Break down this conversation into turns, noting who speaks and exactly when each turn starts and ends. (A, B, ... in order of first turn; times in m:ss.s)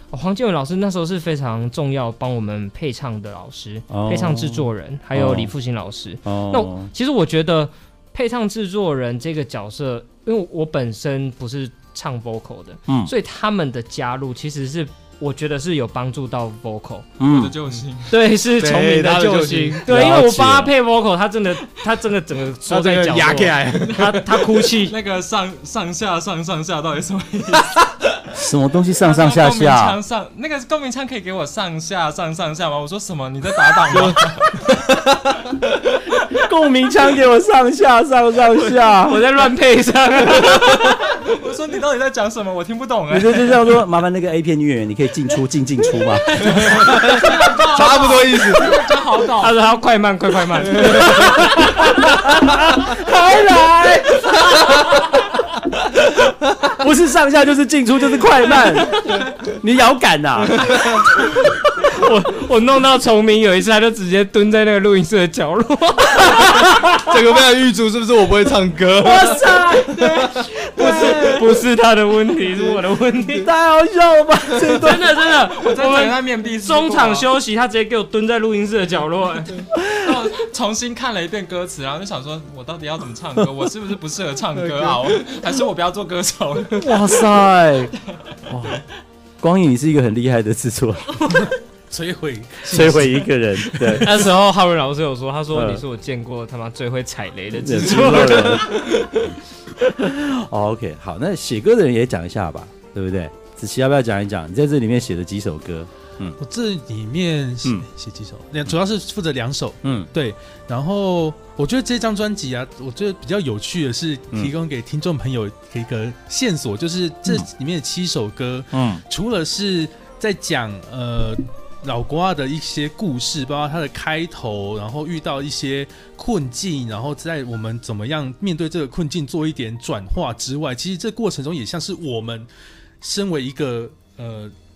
0:00.1-0:17.1 A
0:03.9-0:05.5 B
0:06.2-0:06.9 B
0:12.9-0:13.1 B
0:17.2-0:17.5 B
0:17.2-0:18.2 C
0:18.1-0:25.0 A
0:18.6-0:19.8 D
0:19.8-0:20.7 B
0:22.7-0:24.1 D
0:24.0-0:28.1 C
0:28.3-0:30.0 B
0:29.0-0:34.6 C
0:36.3-0:39.2 B
0:38.9-0:41.1 A
0:41.2-0:43.8 C
0:43.1-0:46.8 B
0:46.3-0:49.6 C
0:47.7-0:48.7 D
0:49.4-0:53.0 A
0:51.1-0:55.0 B
0:56.6-1:00.7 B
1:00.8-1:07.0 A
1:07.1-1:09.4 D
1:09.0-1:13.5 A
1:13.4-1:15.0 B
1:14.7-1:19.7 A
1:15.5-1:17.3 C
1:20.0-1:27.0 C
1:26.7-1:27.9 B
1:28.5-1:28.8 B
1:29.4-1:31.3 B
1:31.9-1:33.3 E
1:32.6-1:34.2 B
1:33.9-1:38.8 A
1:35.5-1:35.8 B
1:37.6-1:46.4 B
1:46.4-2:12.5 E
1:49.8-1:50.1 B
1:58.7-1:59.0 B
2:13.0-2:14.5 E